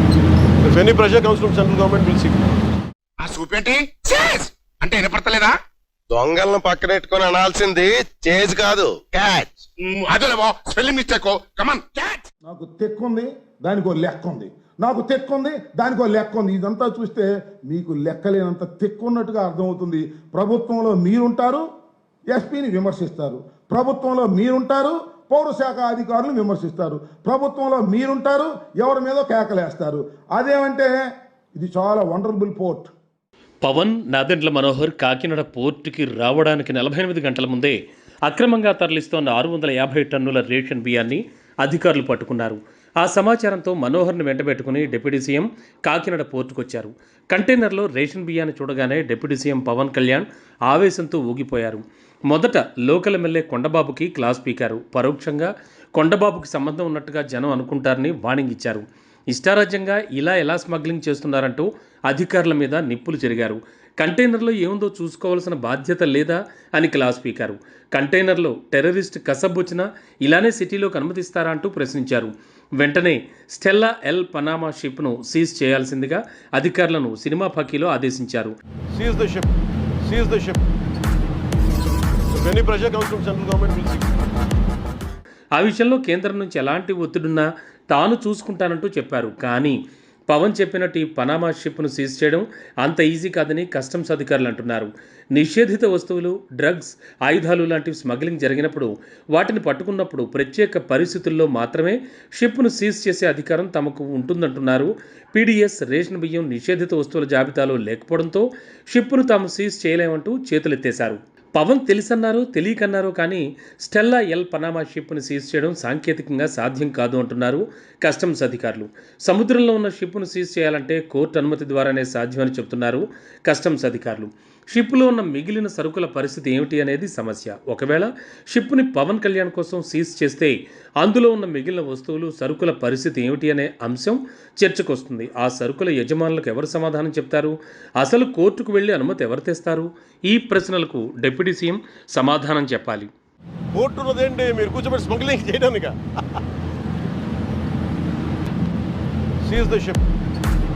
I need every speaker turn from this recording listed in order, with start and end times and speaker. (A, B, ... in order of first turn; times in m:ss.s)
0:00.6-0:02.5 A
0:03.2-0:05.6 B
0:06.1-0:09.5 C
0:09.8-0:12.2 B
0:12.5-0:21.6 D
0:22.3-0:30.9 D
0:31.6-0:32.9 D
0:33.6-1:18.6 E
1:18.9-1:19.5 A
1:20.0-1:20.6 A
1:22.3-1:24.1 A
1:25.6-1:29.8 E
1:30.3-2:23.1 E
2:23.7-2:26.0 A
2:29.4-2:30.0 A